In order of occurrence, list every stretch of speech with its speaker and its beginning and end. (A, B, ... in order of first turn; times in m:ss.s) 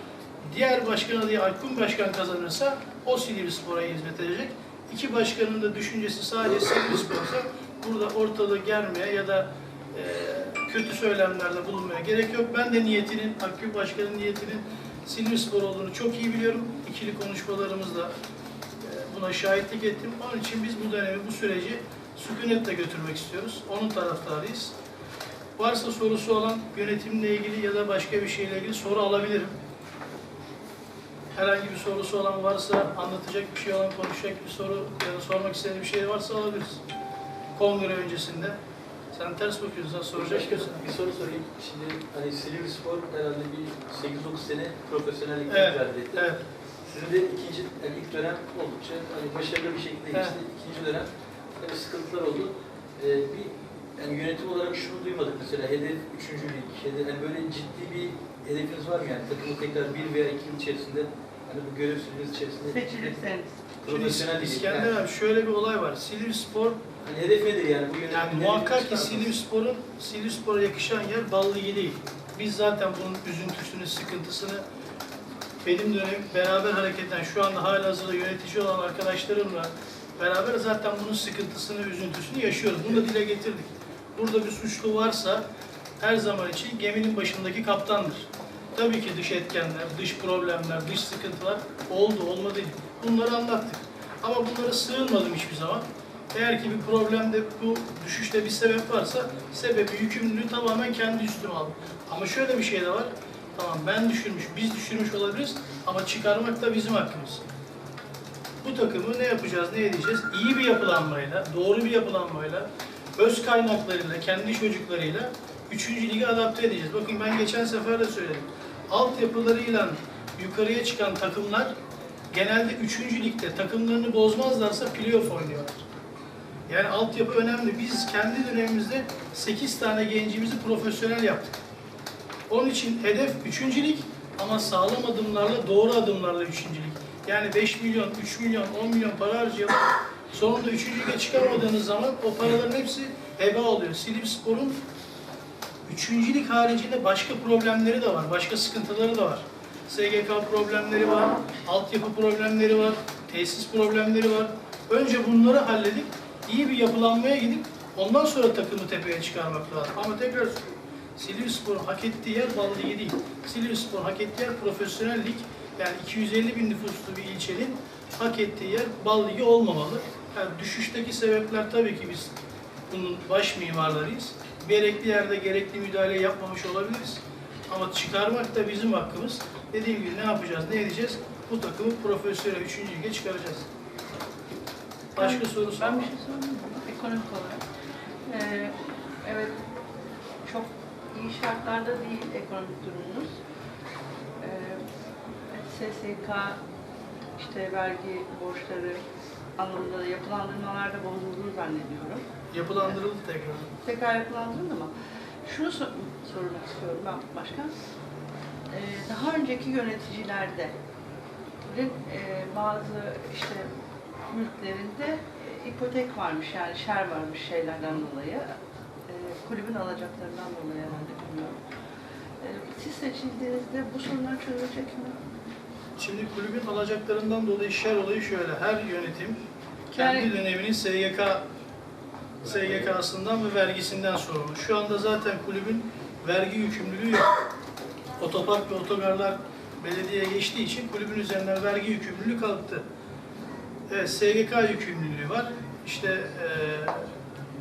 0:00.4-0:18.1 A
0:18.8-0:24.7 A
0:25.6-0:29.6 A
0:31.3-0:36.8 A
0:37.5-0:38.6 A
0:39.1-0:40.8 A
0:40.1-0:46.3 B
0:45.5-0:46.4 A
0:46.8-0:51.1 B
0:51.6-1:03.1 B
1:02.7-1:03.5 C
1:03.8-1:04.9 B
1:03.9-1:06.8 A
1:07.0-1:09.3 B
1:08.1-1:14.6 A
1:15.6-1:25.4 A
1:26.0-1:47.4 A
1:48.6-2:01.7 A
2:02.3-2:05.8 A
2:06.7-2:11.5 A
2:12.5-2:24.8 A
2:25.9-2:52.3 A
2:52.9-3:03.7 A
3:05.2-3:06.1 A
3:05.2-3:07.6 C
3:08.3-3:09.5 C
3:10.4-3:13.3 C
3:14.4-3:14.8 C
3:15.5-3:16.6 C
3:17.4-3:19.0 C
3:19.6-3:22.2 C
3:22.5-3:23.7 A
3:23.8-3:24.9 C
3:25.4-3:27.7 C
3:28.7-3:30.7 C
3:31.6-3:33.7 C
3:34.3-3:38.5 C
3:39.1-3:41.6 C
3:42.4-3:45.2 C
3:46.0-3:49.4 A
3:49.9-3:51.4 A
3:50.0-3:50.3 C
3:52.4-3:57.3 A
3:58.2-4:02.8 A
4:03.9-4:07.1 A